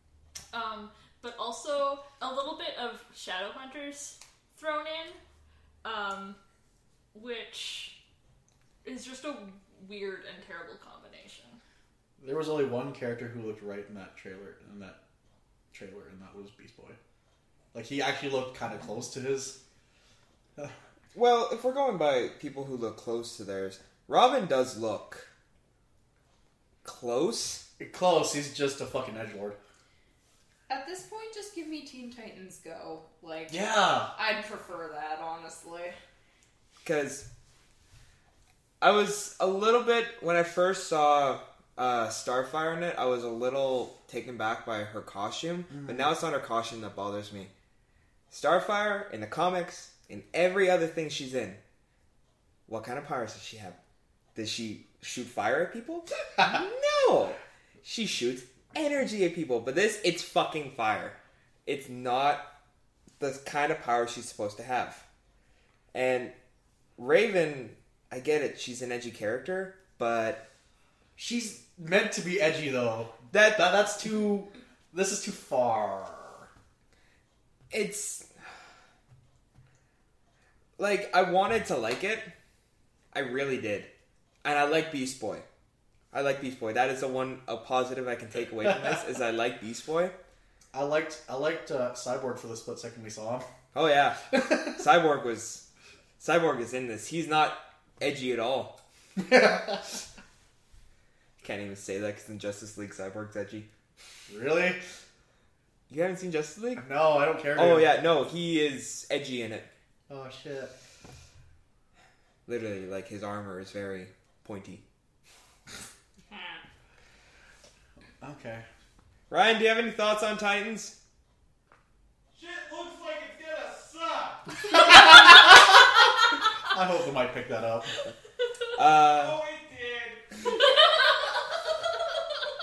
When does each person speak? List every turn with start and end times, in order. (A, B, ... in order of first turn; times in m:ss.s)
0:00.5-0:05.2 A
0:05.8-0:06.4 A
0:07.1-0:08.0 A
0:08.8-0:11.6 A
0:12.2-0:15.0 B
0:15.7-0:17.0 B
0:17.7-0:19.6 B
0:21.1-0:25.3 C
0:26.8-0:27.6 C
0:27.8-0:29.6 B
0:30.7-0:36.0 D
0:33.5-0:34.1 B
0:36.8-0:37.2 C
0:38.8-0:47.5 C
0:48.3-0:51.6 C
0:52.7-0:53.8 C
0:54.3-1:02.5 C
1:03.2-1:05.0 C
1:05.9-1:06.3 C
1:07.0-1:10.4 C
1:11.2-1:16.5 B
1:17.7-1:18.3 C
1:20.8-1:22.3 C
1:23.1-1:23.9 C
1:24.4-1:25.4 C
1:26.1-1:30.1 C
1:30.7-1:33.5 B
1:33.7-1:35.6 C
1:36.2-1:38.8 C
1:39.2-1:40.0 B
1:41.4-1:43.7 C
1:44.3-1:44.8 B
1:45.9-1:46.9 C
1:46.8-1:47.9 B
1:47.5-1:49.7 C
1:50.1-1:50.7 B
1:52.4-1:54.8 C
1:56.3-1:56.6 D
1:58.2-1:58.6 B
1:59.3-2:01.0 C
2:02.3-2:04.5 E
2:04.7-2:05.6 B
2:06.7-2:08.0 B
2:08.8-2:09.4 C
2:09.1-2:10.4 E